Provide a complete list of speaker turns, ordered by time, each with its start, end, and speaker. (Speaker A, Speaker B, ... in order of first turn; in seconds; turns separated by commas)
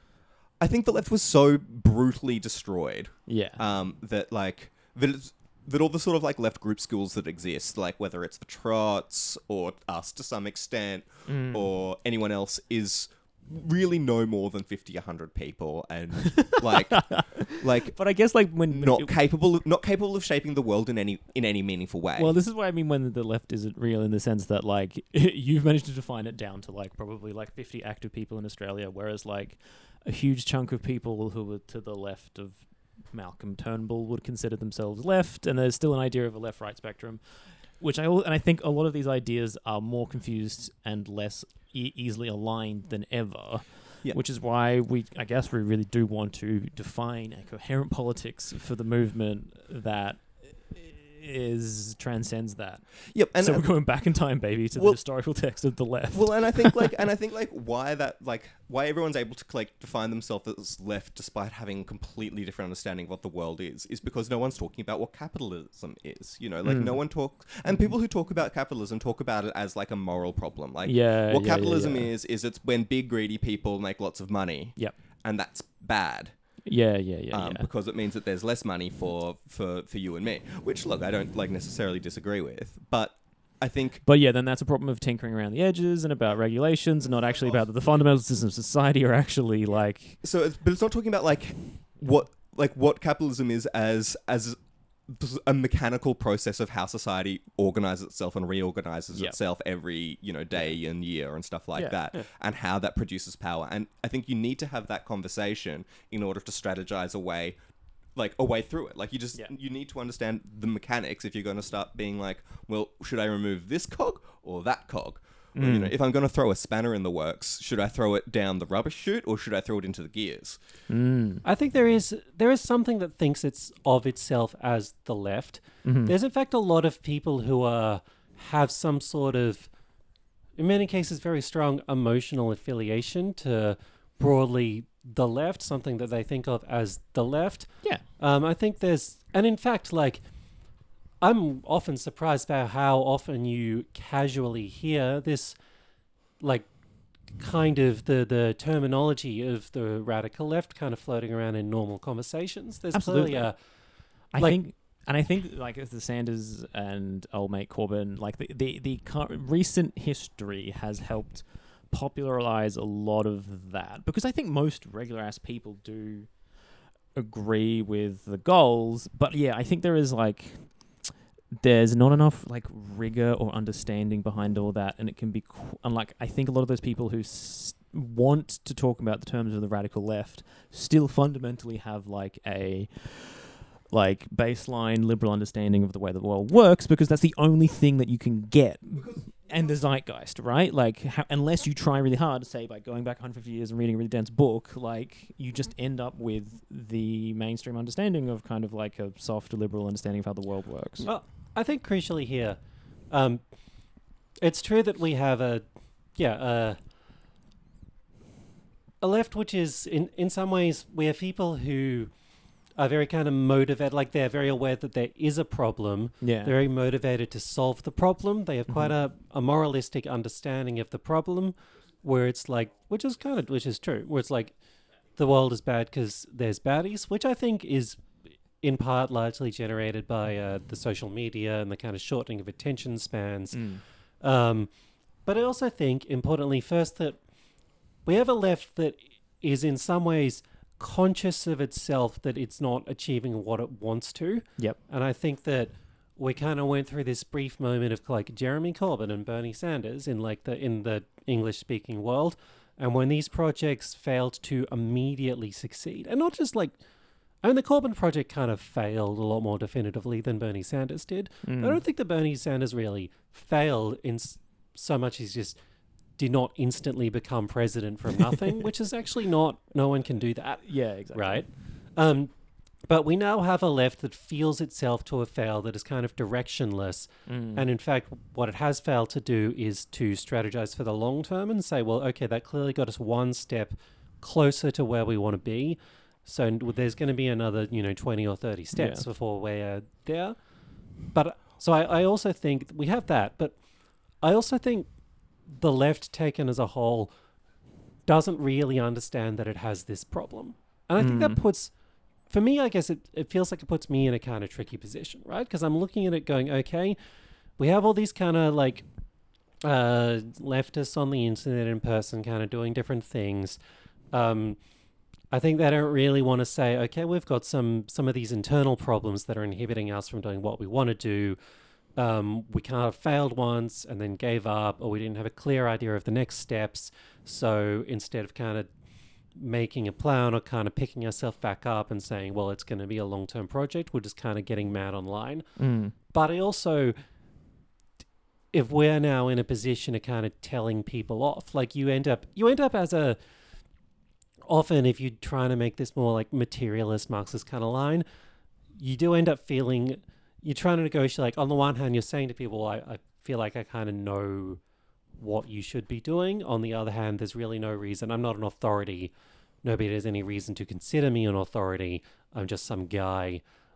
Speaker A: 0.6-22.3, Speaker B: 3.3-3.6, Speaker B: 11.3-11.7, Speaker B: 16.4-19.2, Speaker B: 22.2-56.9, Speaker A: 53.1-76.7, Speaker B: 66.6-68.0, Speaker B: 70.8-72.1, Speaker B: 76.6-77.7, Speaker A: 77.3-84.0, Speaker B: 84.0-90.2, Speaker A: 87.4-87.7, Speaker A: 90.2-107.6, Speaker B: 99.1-99.4, Speaker B: 101.7-102.0, Speaker A: 108.2-120.6, Speaker B: 115.5-116.0, Speaker B: 120.9-121.4, Speaker C: 121.4-130.0, Speaker B: 125.8-126.1, Speaker C: 130.5-154.6, Speaker B: 152.9-201.2, Speaker C: 201.0-206.9, Speaker C: 209.0-265.6, Speaker B: 216.2-216.6, Speaker B: 218.7-218.9, Speaker B: 233.5-233.8, Speaker B: 261.4-261.8, Speaker C: 266.1-297.4, Speaker B: 270.6-271.6, Speaker B: 277.3-277.7, Speaker B: 288.7-289.1, Speaker C: 298.1-313.6, Speaker B: 301.0-301.4, Speaker C: 314.1-321.4, Speaker C: 321.9-337.0, Speaker B: 335.6-335.9, Speaker C: 338.5-343.8, Speaker C: 344.4-348.1, Speaker C: 348.7-354.6, Speaker C: 355.2-363.4